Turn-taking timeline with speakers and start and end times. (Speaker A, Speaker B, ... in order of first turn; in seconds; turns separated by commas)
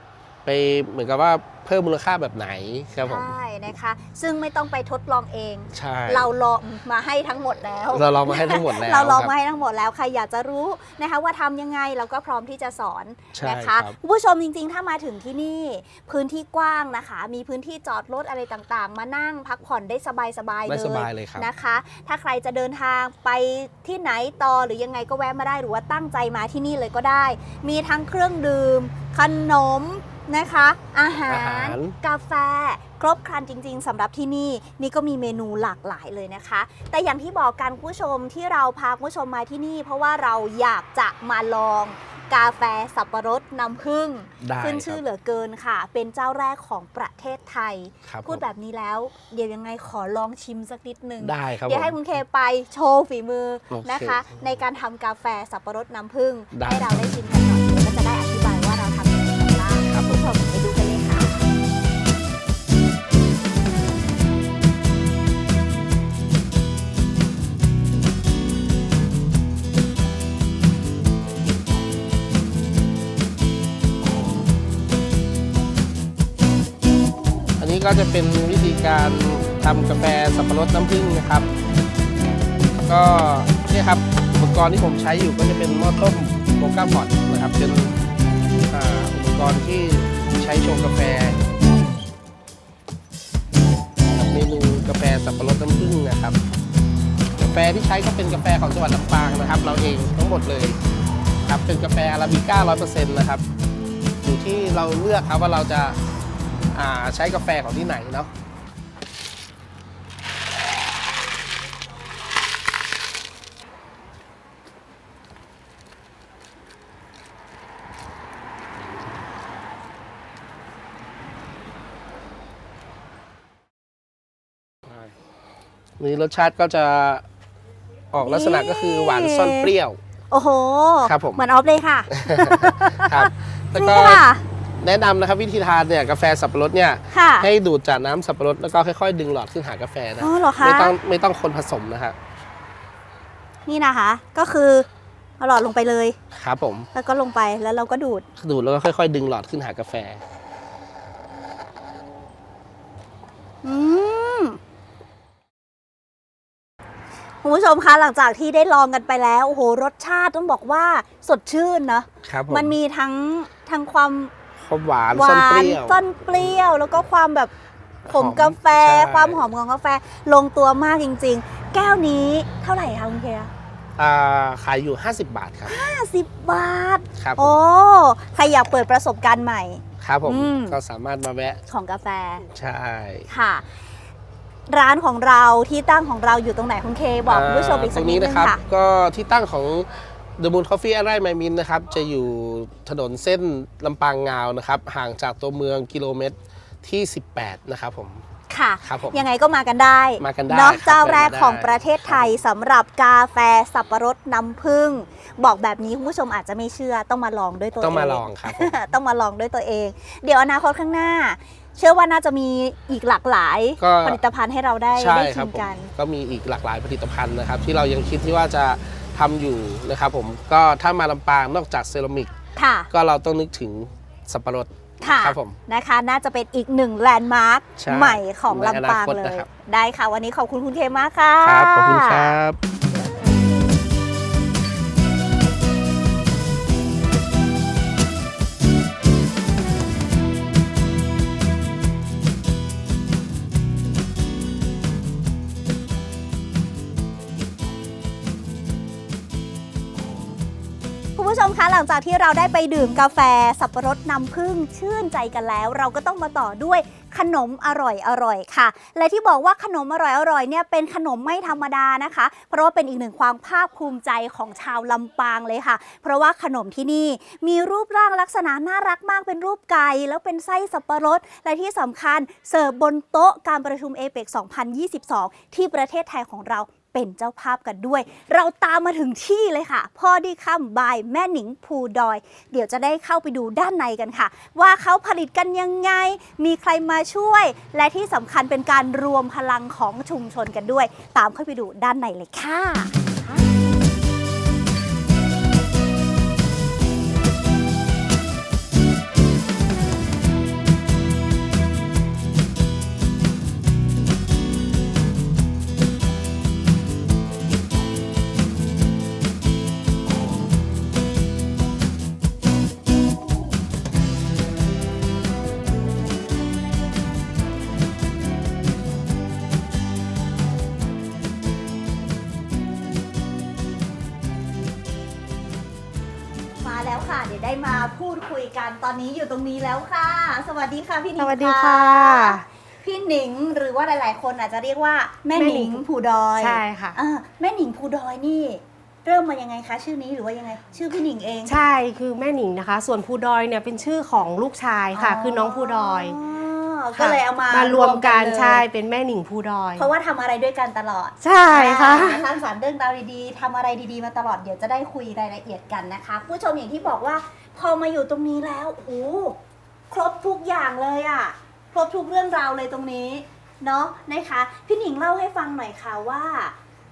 Speaker A: 0.4-3.3, Speaker B: 3.0-61.4, Speaker A: 5.7-6.3, Speaker A: 7.9-9.3, Speaker A: 13.3-14.0, Speaker A: 20.7-21.5, Speaker A: 31.3-31.9, Speaker A: 44.4-45.0, Speaker A: 48.1-48.4, Speaker A: 51.2-51.9, Speaker A: 53.7-54.3, Speaker A: 56.5-57.0, Speaker A: 59.9-60.2, Speaker A: 77.6-81.5, Speaker A: 82.8-87.9, Speaker A: 88.7-91.4, Speaker A: 94.1-96.3, Speaker A: 97.4-100.8, Speaker A: 101.4-103.4, Speaker A: 104.2-106.0, Speaker A: 106.7-108.3, Speaker A: 126.0-127.2, Speaker A: 128.1-130.0, Speaker B: 128.2-129.7, Speaker B: 130.3-134.4, Speaker A: 131.0-131.4, Speaker A: 132.1-134.2, Speaker A: 134.8-142.2, Speaker B: 137.1-137.5, Speaker B: 140.2-140.9, Speaker B: 143.7-144.9, Speaker B: 145.4-146.2, Speaker A: 146.3-146.9, Speaker B: 146.9-148.2, Speaker A: 148.4-150.2, Speaker B: 153.6-154.6, Speaker B: 157.4-164.3, Speaker A: 162.2-162.7, Speaker A: 164.6-166.0, Speaker B: 165.1-167.5, Speaker B: 168.1-173.5, Speaker A: 168.1-169.4, Speaker A: 174.0-175.8, Speaker B: 175.7-180.8, Speaker A: 177.2-177.6, Speaker A: 180.0-181.6, Speaker B: 181.7-182.5, Speaker A: 182.5-183.3, Speaker B: 183.3-183.6, Speaker B: 184.7-188.6, Speaker A: 187.3-198.2, Speaker B: 198.5-215.9, Speaker A: 198.8-199.2, Speaker A: 200.2-202.4, Speaker A: 207.8-208.8, Speaker A: 213.8-214.2, Speaker A: 214.9-222.3, Speaker B: 222.6-222.9, Speaker A: 222.9-225.6, Speaker B: 225.0-232.3, Speaker A: 227.8-229.5, Speaker A: 231.4-232.6, Speaker B: 251.2-293.4, Speaker B: 326.6-341.6, Speaker C: 331.2-332.4, Speaker C: 335.3-335.8, Speaker C: 336.4-337.0, Speaker C: 341.4-346.2, Speaker B: 344.9-348.6, Speaker C: 346.9-349.9, Speaker B: 349.8-359.4, Speaker C: 351.2-352.2, Speaker B: 359.9-366.5